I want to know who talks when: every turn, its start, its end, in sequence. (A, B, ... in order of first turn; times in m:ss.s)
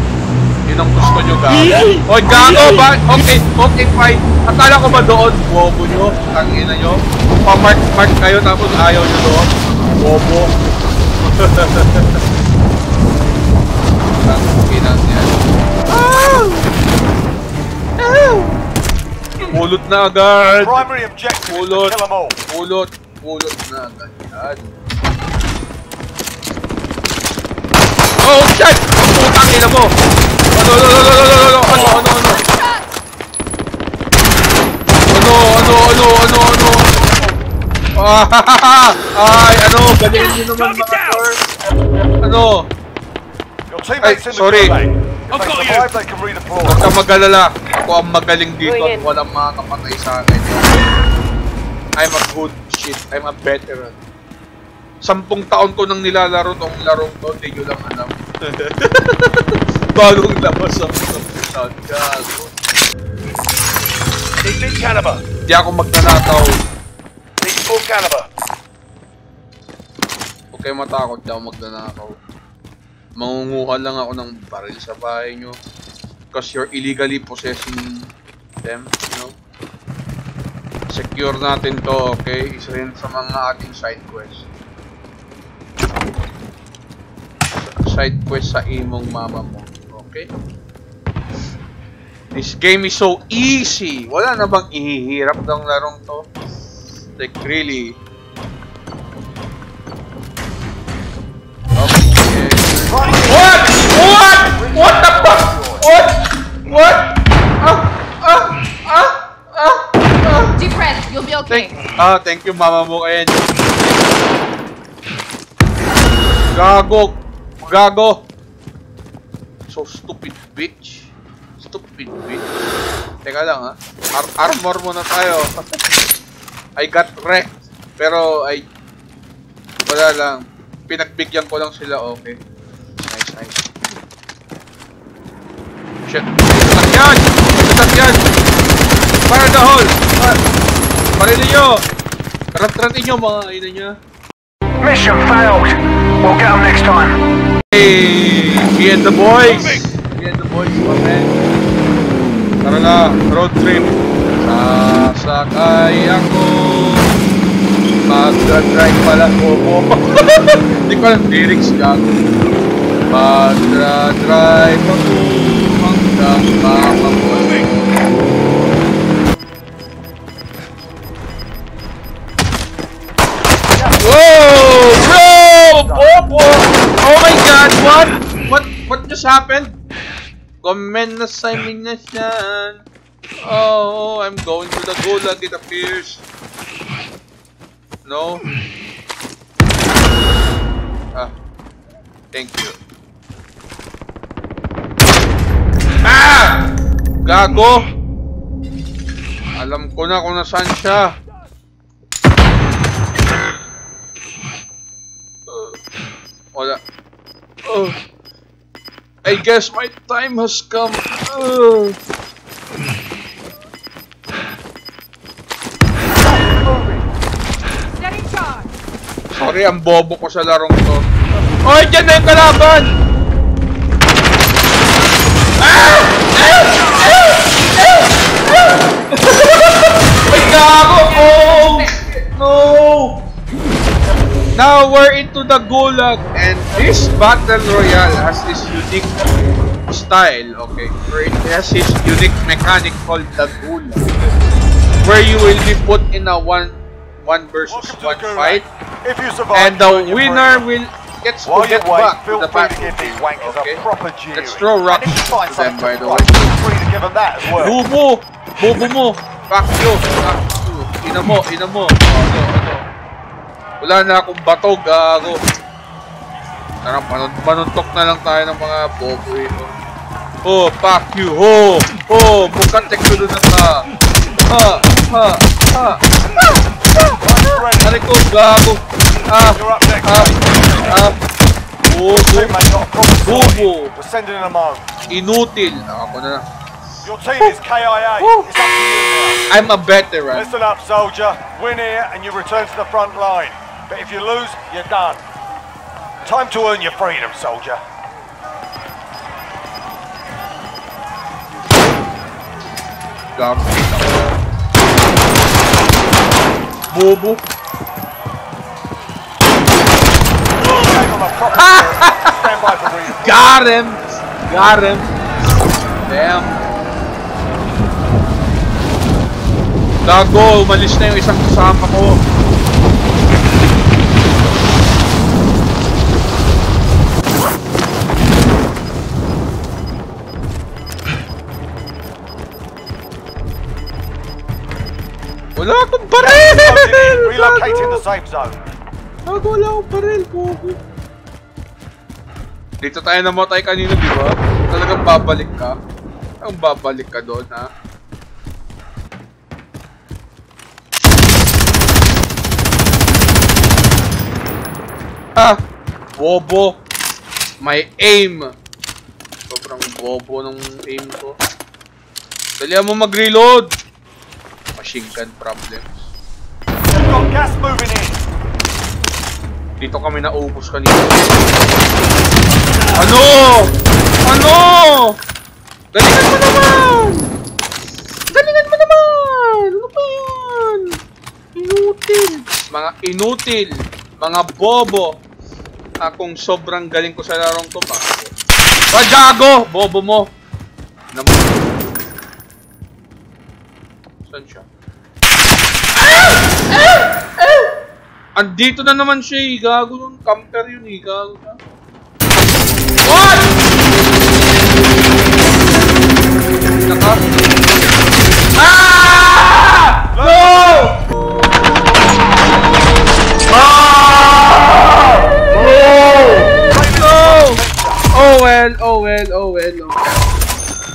0:00.7-0:10.5 A
0:11.3-0:12.2 A
0:14.2-0:15.4 A
0:15.9-0:16.7 A
0:18.0-0:18.6 A
0:19.4-0:20.9 A
0:20.6-0:22.4 B
0:21.5-0:22.0 A
0:22.5-0:24.7 A
0:28.2-0:29.9 A
0:30.6-0:32.4 A
0:31.9-0:32.8 C
0:35.1-0:37.0 A
0:38.0-0:41.4 A
0:42.2-0:42.7 A
0:43.7-0:46.9 B
0:44.0-0:44.8 A
0:46.6-0:50.8 A
0:48.7-0:49.0 D
0:52.0-0:54.0 A
0:55.0-1:02.6 A
1:04.4-1:05.2 D
1:05.5-1:06.5 A
1:07.4-1:08.3 D
1:10.5-1:12.2 A
1:13.2-1:15.6 A
1:16.3-1:17.9 A
1:18.6-1:19.4 A
1:20.9-1:24.5 A
1:27.6-1:30.3 A
1:32.3-1:36.3 A
1:37.2-1:38.0 A
1:41.8-1:50.5 A
1:42.8-1:43.7 B
1:44.5-1:45.9 B
1:50.6-1:51.8 C
1:51.5-1:53.4 A
1:56.5-1:58.2 A
1:59.7-2:02.5 A
2:03.2-2:05.5 A
2:06.8-2:08.7 A
2:09.9-2:12.4 A
2:13.1-2:13.7 A
2:16.1-2:18.2 A
2:19.3-2:20.4 A
2:21.2-2:21.8 A
2:22.6-2:24.0 A
2:24.8-2:25.7 B
2:26.2-2:27.1 B
2:27.7-2:31.3 A
2:32.6-2:37.1 A
2:38.1-2:42.1 A
2:43.1-2:48.0 A
2:53.7-2:54.1 B
2:54.0-2:59.8 A
2:55.4-2:56.1 B
3:00.6-3:02.8 A
3:03.5-3:06.2 A
3:08.0-3:08.4 A
3:12.3-3:12.8 A
3:16.0-3:16.6 A
3:17.2-3:17.8 A
3:19.6-3:21.1 A
3:25.5-3:25.8 A
3:26.5-3:26.8 A
3:27.7-3:28.0 A
3:29.2-3:32.0 A
3:36.5-3:37.0 B
3:38.0-3:38.7 C
3:39.4-3:41.1 A
3:41.6-3:42.9 A
3:45.6-3:53.2 A
3:51.1-3:52.0 C
3:54.6-3:59.1 A
3:59.9-4:04.0 A
4:05.0-4:08.6 A
4:07.7-4:10.6 B
4:09.5-4:13.8 A
4:11.5-4:17.8 B
4:14.4-4:16.6 A
4:17.6-4:22.8 A
4:23.8-4:25.4 A
4:26.8-4:29.7 A
4:30.4-4:33.8 A
4:34.5-4:40.3 A
4:37.2-4:38.0 B
4:39.6-4:41.1 B
4:40.8-4:41.2 A
4:41.9-4:42.5 A
4:42.1-4:44.9 B
4:43.2-4:43.9 A
4:45.1-4:46.5 A
4:47.0-4:49.4 B
4:48.2-4:48.5 A
4:49.5-4:50.5 A
4:50.3-4:55.2 B
4:56.2-4:57.8 B
5:03.4-5:04.4 A
5:06.9-5:07.4 A
5:10.6-5:13.7 B
5:11.6-5:12.4 A
5:13.2-5:15.1 A
5:16.1-5:16.6 A
5:20.0-5:22.2 A
5:35.6-5:38.0 A
5:36.2-5:38.6 B
5:39.3-5:40.8 A
5:42.8-5:45.7 A
5:46.4-5:47.7 A
5:56.2-5:56.8 A
5:57.6-5:58.4 A
5:59.5-6:01.4 A
6:02.6-6:03.7 A
6:04.8-6:06.1 A
6:06.9-6:08.2 B
6:09.8-6:11.6 A
6:12.9-6:13.7 A
6:14.3-6:15.2 A
6:15.9-6:17.3 A
6:18.3-6:21.0 A
6:21.6-6:25.2 A
6:26.0-6:28.3 A
6:28.9-6:30.3 A
6:31.1-6:32.0 A
6:34.3-6:34.6 A
6:36.0-6:37.7 A
6:38.4-6:41.6 A
6:43.0-6:43.6 A
6:46.6-6:47.3 A
6:48.5-6:51.0 A
6:50.1-6:50.9 B
6:53.5-6:57.6 A
6:56.7-6:58.0 B
6:58.1-7:00.3 A